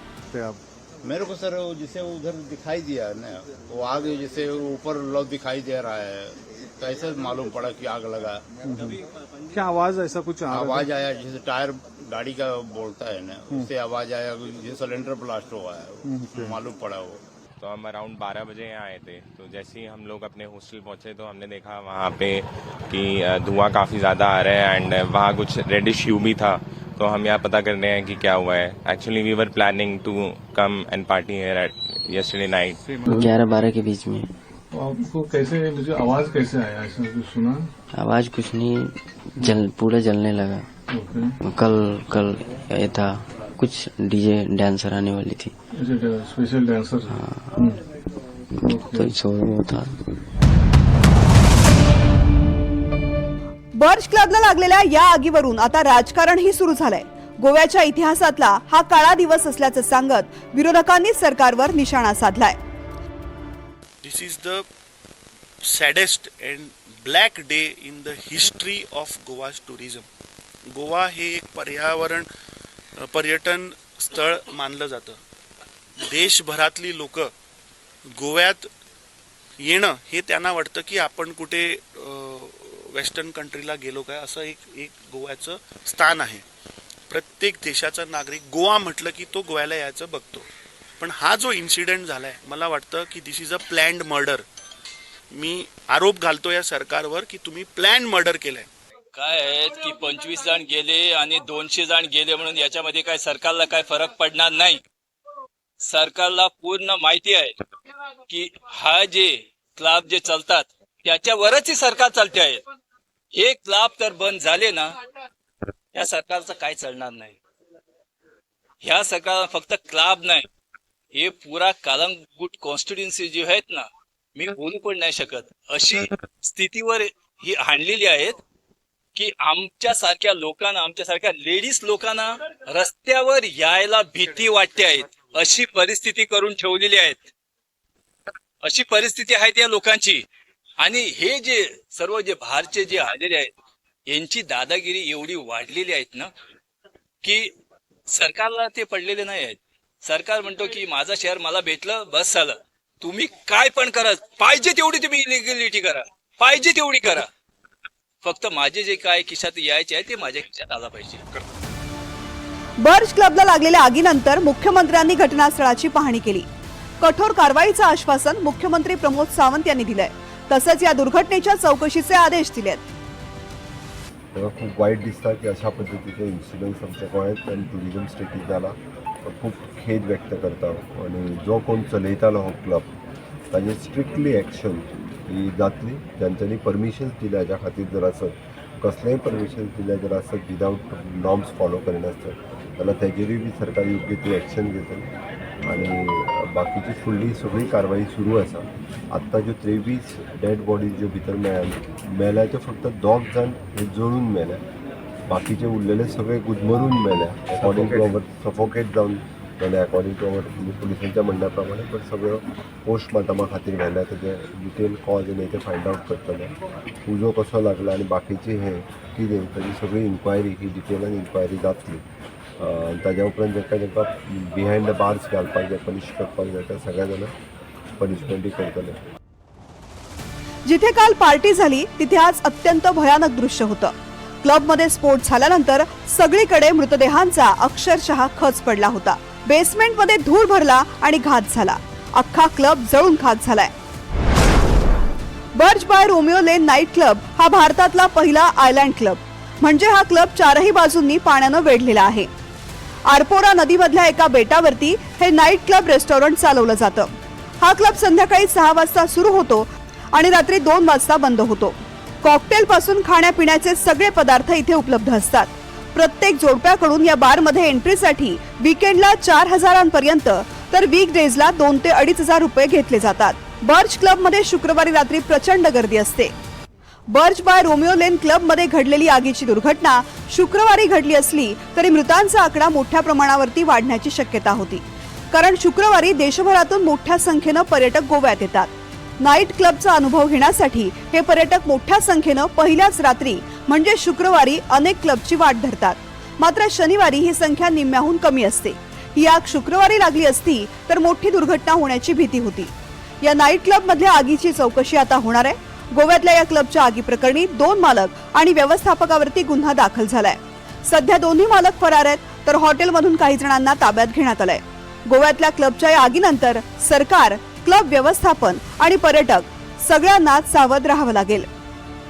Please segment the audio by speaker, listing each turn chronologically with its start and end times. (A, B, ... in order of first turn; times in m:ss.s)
0:00.3-0:17.2 A
0:17.6-0:32.8 B
0:33.0-0:33.3 C
0:33.2-0:34.3 D
0:34.7-0:37.7 C
0:38.0-0:38.9 D
0:39.4-0:40.7 D
0:40.9-0:41.4 C
0:41.5-0:45.5 D
0:45.7-0:47.8 C
0:48.6-0:49.1 C
0:49.0-0:49.9 D
0:53.8-1:02.6 E
1:04.0-1:04.6 F
1:05.6-1:10.0 F
1:10.7-1:12.3 F
1:13.0-1:15.2 F
1:16.0-1:17.3 F
1:18.1-1:18.7 F
1:19.6-1:26.4 F
1:27.1-1:30.4 F
1:31.0-1:34.4 F
1:35.3-1:38.7 F
1:39.1-1:44.8 G
1:45.8-1:47.6 G
1:48.3-1:52.6 G
1:53.3-1:54.9 G
1:55.9-1:57.4 G
1:58.8-2:00.5 G
2:01.1-2:08.4 G
2:09.2-2:17.3 G
2:18.6-2:20.2 G
2:20.8-2:23.5 G
2:24.1-2:26.3 G
2:27.2-2:27.5 G
2:28.1-2:37.2 G
2:38.2-2:41.2 G
2:42.8-2:46.4 E
2:47.0-2:52.8 E
2:54.3-3:02.9 H
3:03.5-3:15.1 H
3:15.6-3:24.6 H
3:25.3-3:36.5 H
3:37.0-3:42.0 H
3:42.6-3:47.3 H
3:48.0-3:49.0 H
3:50.6-4:03.7 E
4:05.6-4:12.3 E
4:13.1-4:36.3 E
4:37.1-5:02.7 E
5:03.2-5:21.5 E